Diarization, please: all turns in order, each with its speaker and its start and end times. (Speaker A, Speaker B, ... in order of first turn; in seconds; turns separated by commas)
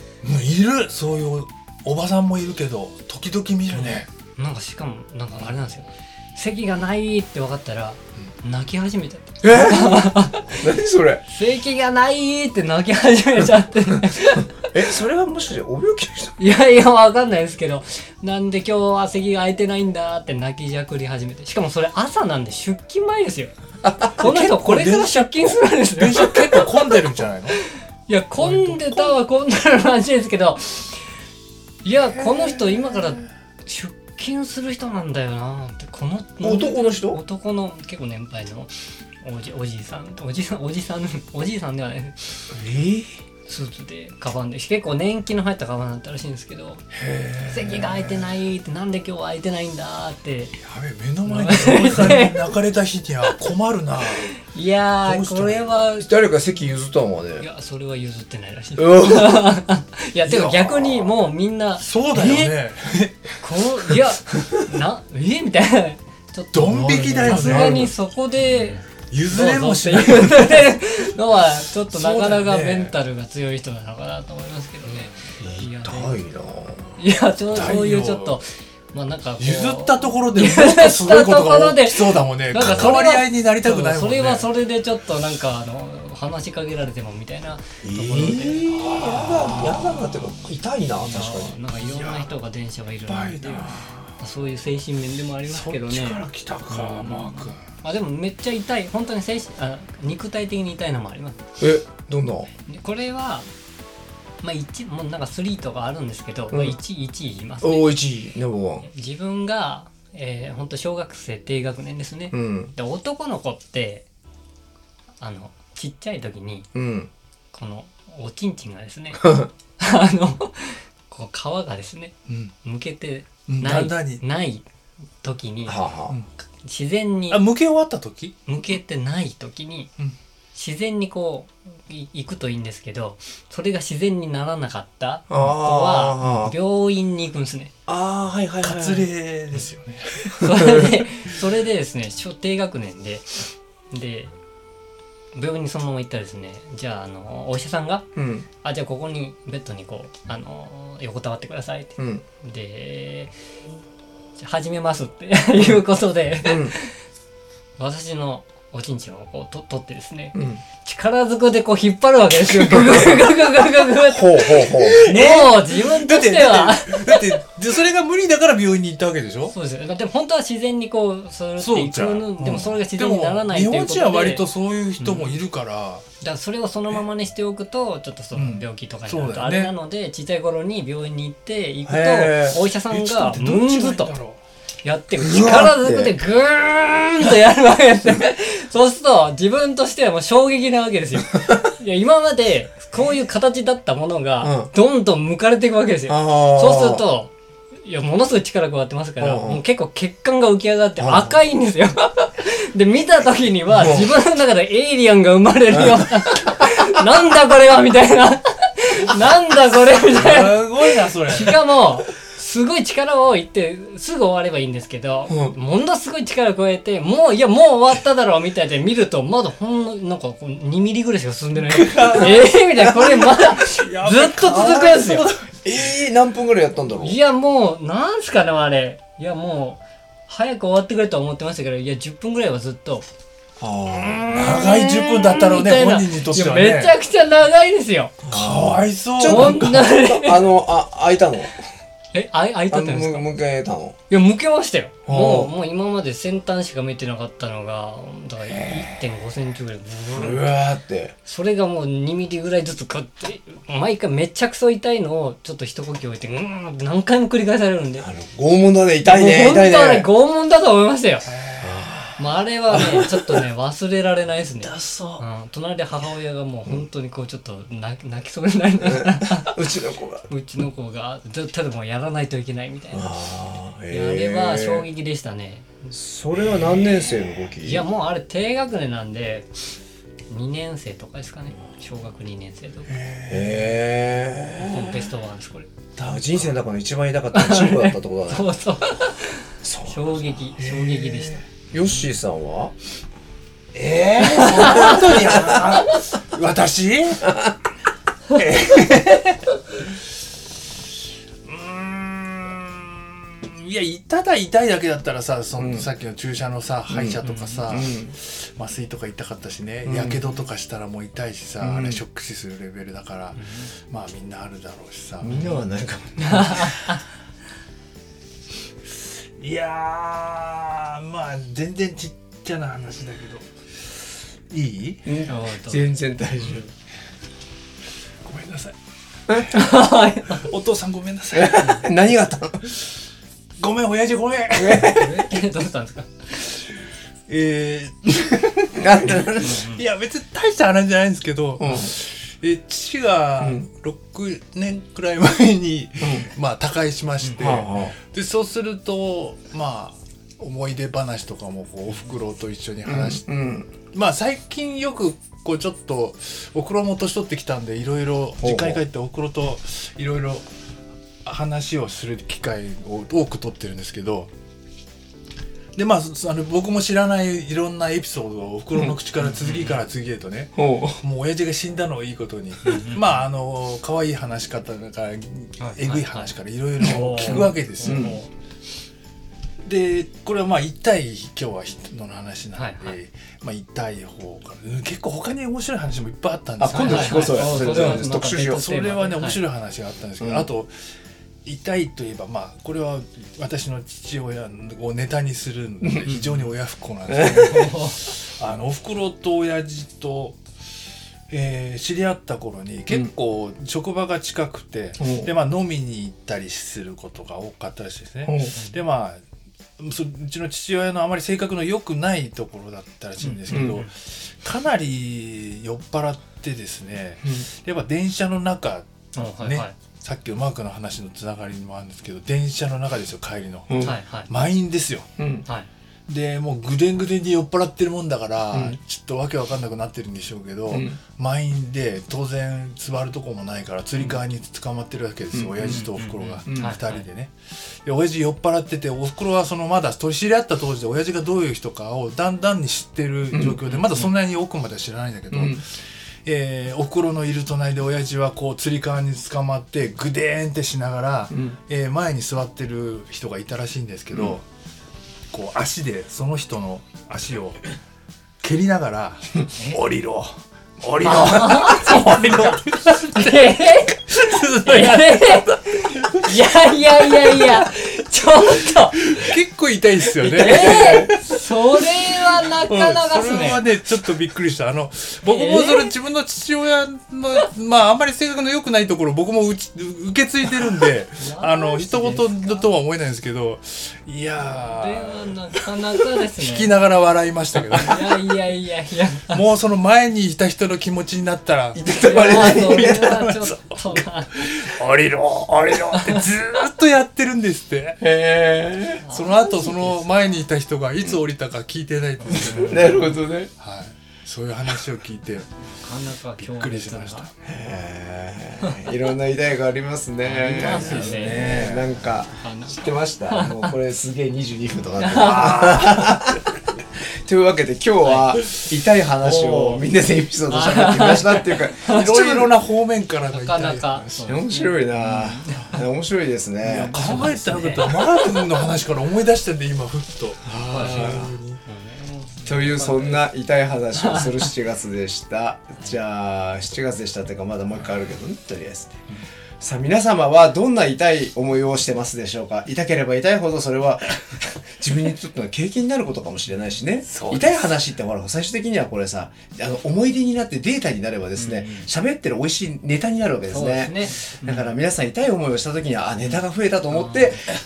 Speaker A: 0.2-4.1, Speaker B: 4.3-10.7, Speaker C: 9.4-11.2, Speaker B: 11.3-14.6, Speaker C: 14.6-16.3, Speaker B: 16.4-23.5, Speaker C: 23.8-24.3, Speaker B: 24.2-27.0, Speaker A: 24.2-27.6, Speaker B: 27.6-31.0, Speaker A: 28.4-29.1, Speaker B: 31.8-42.3, Speaker A: 32.1-32.8, Speaker C: 36.4-37.2, Speaker C: 42.5-43.2, Speaker B: 43.5-46.8, Speaker A: 46.9-48.3, Speaker B: 47.5-50.6, Speaker A: 50.6-54.3, Speaker B: 51.2-52.4, Speaker B: 54.4-56.1, Speaker A: 55.0-55.7, Speaker C: 56.0-57.5, Speaker B: 57.4-62.5, Speaker C: 58.8-59.6, Speaker C: 60.3-61.1, Speaker A: 61.8-64.0, Speaker B: 63.4-76.2, Speaker A: 66.5-67.9, Speaker C: 66.9-67.9, Speaker A: 69.1-70.7, Speaker A: 71.8-72.9, Speaker A: 74.8-75.1, Speaker C: 75.4-76.9, Speaker B: 77.0-88.7, Speaker A: 77.5-78.4, Speaker A: 79.4-84.5, Speaker C: 82.6-82.8, Speaker C: 87.8-91.5, Speaker A: 88.8-90.1, Speaker B: 91.0-101.4, Speaker A: 91.8-92.3, Speaker A: 93.1-94.1, Speaker A: 95.5-97.6, Speaker C: 101.6-102.5, Speaker B: 102.7-103.5, Speaker B: 104.4-107.9, Speaker C: 106.5-106.8, Speaker C: 107.6-108.8, Speaker B: 108.8-114.0, Speaker C: 112.3-112.7, Speaker B: 115.2-116.7, Speaker C: 116.7-117.1, Speaker B: 117.5-124.6, Speaker C: 119.2-119.5, Speaker A: 122.3-122.5, Speaker A: 123.5-124.2, Speaker B: 125.2-125.8, Speaker C: 125.7-126.2, Speaker B: 126.6-127.4, Speaker A: 127.3-128.4, Speaker B: 128.4-129.9, Speaker B: 130.5-137.7, Speaker C: 135.3-136.5, Speaker C: 137.9-139.1, Speaker A: 138.6-140.5, Speaker B: 140.4-144.3, Speaker C: 140.4-141.0, Speaker B: 145.3-148.1, Speaker C: 148.2-148.4, Speaker B: 148.6-153.3, Speaker C: 152.0-152.2, Speaker B: 154.4-156.9, Speaker C: 156.4-156.8, Speaker B: 157.8-167.4, Speaker C: 160.3-160.6, Speaker C: 164.1-165.0, Speaker A: 164.7-169.6, Speaker B: 169.5-174.4, Speaker A: 171.6-176.0, Speaker B: 175.0-175.4, Speaker B: 176.2-184.1, Speaker A: 178.3-179.7, Speaker C: 181.8-182.6, Speaker A: 182.9-184.4, Speaker B: 184.8-225.3, Speaker C: 185.2-186.1, Speaker C: 194.4-194.7, Speaker C: 196.1-197.0, Speaker C: 199.2-199.6, Speaker C: 201.0-201.3, Speaker C: 203.7-204.2, Speaker C: 205.7-206.7, Speaker A: 210.0-211.7, Speaker C: 215.3-215.5, Speaker A: 221.7-222.5, Speaker A: 223.2-225.5, Speaker C: 224.5-224.9, Speaker C: 225.6-227.2, Speaker B: 227.0-233.0, Speaker C: 233.6-235.1, Speaker B: 234.2-238.2, Speaker A: 234.3-236.9, Speaker C: 238.2-241.5, Speaker A: 238.3-239.8, Speaker B: 239.2-240.4, Speaker B: 242.1-243.3, Speaker C: 242.7-244.0, Speaker B: 244.1-250.5, Speaker C: 245.1-245.5, Speaker C: 250.1-251.1, Speaker B: 251.2-258.1, Speaker C: 258.0-260.1, Speaker B: 259.0-261.3, Speaker A: 261.3-262.1, Speaker C: 261.6-262.1, Speaker B: 262.2-269.6, Speaker C: 262.7-263.4, Speaker C: 268.8-270.3, Speaker B: 270.3-273.1, Speaker C: 272.9-274.9, Speaker B: 273.9-275.9, Speaker C: 275.9-277.8, Speaker B: 277.6-279.5, Speaker B: 280.3-282.9, Speaker A: 282.9-283.9, Speaker C: 283.3-284.9, Speaker A: 284.6-284.9, Speaker B: 284.6-285.7, Speaker A: 286.0-286.6, Speaker C: 286.0-288.5, Speaker B: 287.3-291.4, Speaker C: 289.6-290.5, Speaker A: 290.6-291.4, Speaker C: 291.7-292.7, Speaker A: 293.7-297.4, Speaker B: 294.2-295.0, Speaker C: 294.7-295.6, Speaker A: 298.3-299.4, Speaker A: 301.4-315.5, Speaker C: 305.6-305.9, Speaker C: 306.9-308.1, Speaker B: 307.2-307.8, Speaker C: 309.8-310.2, Speaker C: 311.6-312.0, Speaker B: 313.4-313.6, Speaker C: 315.2-316.8, Speaker B: 316.2-317.0, Speaker A: 319.2-323.5, Speaker A: 324.5-325.1, Speaker C: 325.1-326.6, Speaker B: 325.2-325.9, Speaker A: 328.2-328.7, Speaker A: 329.3-331.9, Speaker B: 329.5-330.5, Speaker C: 331.3-332.6, Speaker A: 333.6-335.1, Speaker C: 334.5-335.1, Speaker B: 334.8-336.2, Speaker A: 337.3-353.2, Speaker C: 338.7-339.7, Speaker B: 339.4-339.8, Speaker C: 341.6-341.9, Speaker C: 343.4-343.7, Speaker C: 346.0-346.3, Speaker C: 347.4-347.9, Speaker C: 352.8-353.7, Speaker A: 353.9-360.4, Speaker C: 358.4-358.8, Speaker A: 361.2-364.3, Speaker A: 365.7-378.2, Speaker B: 369.3-369.8, Speaker C: 370.6-371.0, Speaker B: 375.6-378.3, Speaker C: 376.8-378.2, Speaker A: 379.6-390.7, Speaker B: 382.6-382.9, Speaker C: 386.6-388.7, Speaker B: 386.7-389.4, Speaker C: 390.2-390.5, Speaker A: 391.4-400.4, Speaker C: 395.8-396.3, Speaker C: 397.1-397.4, Speaker B: 397.3-398.1, Speaker A: 401.3-409.2, Speaker C: 405.0-405.3, Speaker C: 408.2-408.5, Speaker A: 409.8-425.1, Speaker B: 413.2-413.9, Speaker C: 413.5-413.8, Speaker B: 419.1-419.7, Speaker B: 423.8-424.3, Speaker C: 425.2-425.4, Speaker A: 426.1-445.6, Speaker C: 428.5-428.8, Speaker C: 430.7-431.0, Speaker C: 435.3-435.9, Speaker B: 435.7-437.0, Speaker C: 436.4-436.7, Speaker C: 443.3-443.6, Speaker B: 443.7-444.1, Speaker C: 445.3-445.6, Speaker A: 446.2-454.4, Speaker C: 451.3-451.6, Speaker C: 454.1-454.4, Speaker A: 455.3-457.7, Speaker A: 458.4-463.5, Speaker B: 461.0-469.0, Speaker A: 464.1-466.2, Speaker A: 469.1-471.2, Speaker C: 470.2-471.1, Speaker B: 470.3-473.6, Speaker A: 472.6-485.3, Speaker B: 475.3-475.9, Speaker B: 481.2-482.6, Speaker B: 484.6-486.7, Speaker A: 486.2-488.1, Speaker B: 487.8-489.4, Speaker A: 489.3-498.0, Speaker C: 491.7-493.3, Speaker B: 491.9-494.4, Speaker B: 495.9-496.2, Speaker C: 498.0-499.2, Speaker B: 499.0-499.9, Speaker A: 499.1-505.5, Speaker C: 502.3-503.5, Speaker B: 502.5-503.1, Speaker B: 505.8-507.3, Speaker A: 506.4-507.3, Speaker C: 507.4-516.6, Speaker B: 510.2-511.8, Speaker A: 510.6-511.9, Speaker B: 512.4-513.7, Speaker B: 515.0-516.0, Speaker C: 517.2-522.5, Speaker A: 519.3-519.7, Speaker B: 519.3-519.8, Speaker B: 520.5-522.1, Speaker A: 521.9-524.3, Speaker B: 523.3-525.8, Speaker C: 524.2-528.4, Speaker A: 526.6-531.6, Speaker B: 526.9-527.9, Speaker C: 530.5-531.3, Speaker B: 530.7-533.3, Speaker C: 532.4-539.0, Speaker B: 534.0-534.5, Speaker C: 539.6-557.5, Speaker A: 547.1-547.7, Speaker B: 551.4-551.9, Speaker B: 553.5-554.6